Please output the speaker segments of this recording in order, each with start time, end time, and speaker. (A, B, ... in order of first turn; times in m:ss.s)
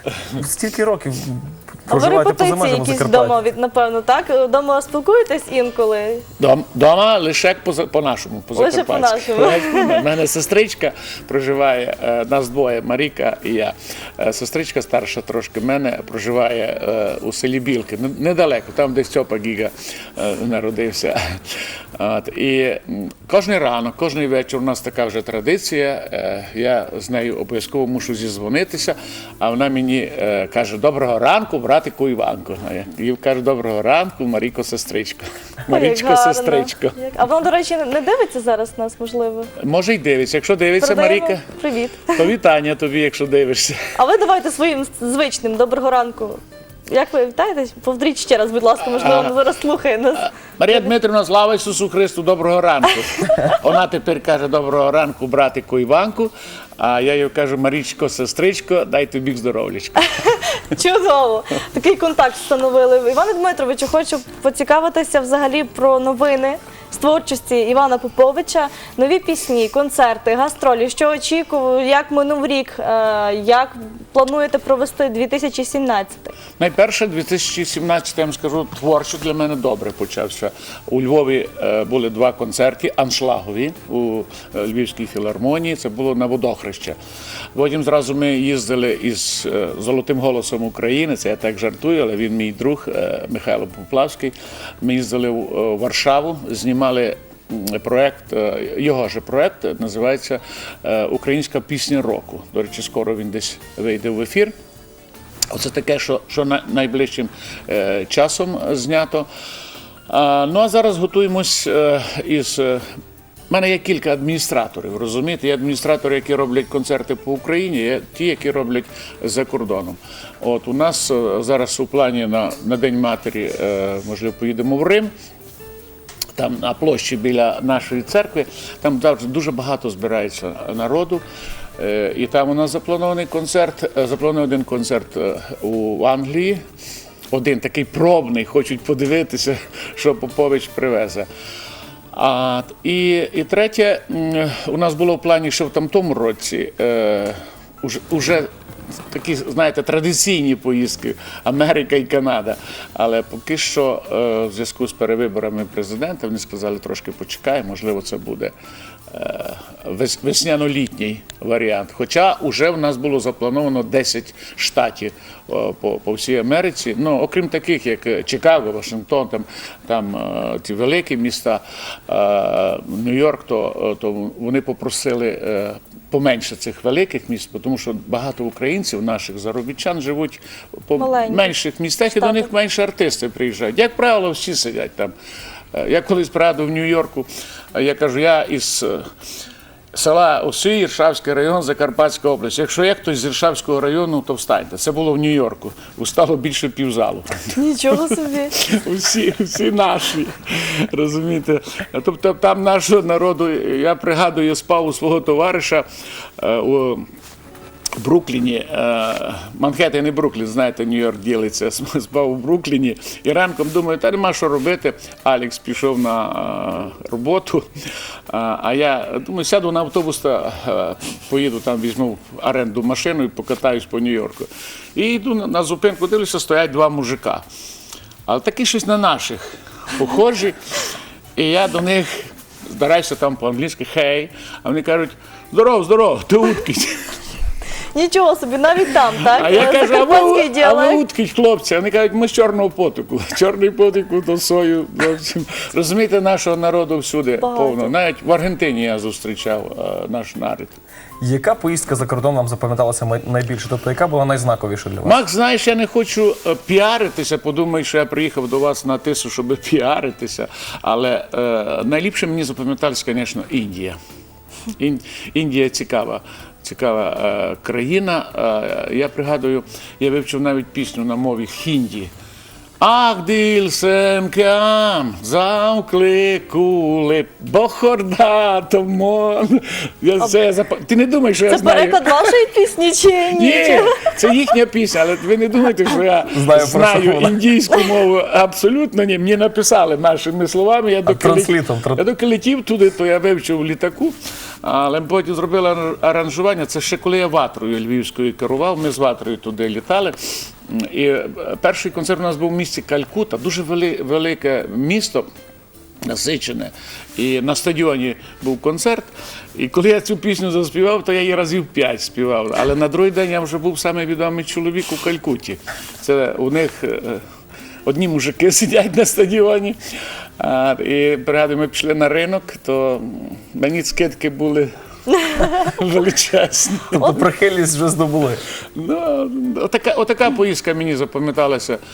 0:00.3-0:03.3 A
0:01.9-0:06.2 B
0:06.4-0:37.0 C
0:08.5-0:10.0 B
0:35.7-0:39.5 B
0:39.6-0:41.4 C
0:40.8-0:42.2 B
0:42.0-0:43.9 C
0:43.9-0:50.8 B
0:48.8-0:49.3 C
0:50.2-1:00.1 C
1:00.2-1:16.4 B
1:16.6-1:27.0 C
1:27.5-1:44.5 C
1:45.5-1:49.3 C
1:50.1-1:52.8 C
1:53.5-2:05.1 C
2:06.4-2:11.2 C
2:11.8-2:16.6 C
2:17.3-2:21.3 C
2:22.1-2:28.5 C
2:29.1-2:38.5 C
2:39.1-3:05.1 C
3:01.0-3:01.5 B
3:02.2-3:02.5 B
3:05.7-3:09.0 C
3:09.9-3:25.8 C
3:17.5-3:18.5 B
3:26.4-3:27.0 C
3:28.0-3:37.7 C
3:38.3-3:47.4 C
3:48.3-3:50.6 C
3:51.4-3:57.0 C
3:57.9-4:01.0 B
3:59.3-4:10.8 C
4:07.4-4:07.9 B
4:11.2-4:15.2 A
4:15.0-4:24.0 C
4:24.8-4:32.1 C
4:32.8-4:42.3 C
4:41.5-4:44.2 B
4:43.3-5:05.2 C
4:46.3-4:47.4 A
4:51.0-4:52.0 A
5:06.0-5:17.2 C
5:17.8-5:19.8 C
5:20.4-5:24.7 C
5:25.1-5:25.7 B
5:25.4-5:27.2 C
5:26.9-5:28.4 A
5:28.7-5:31.8 C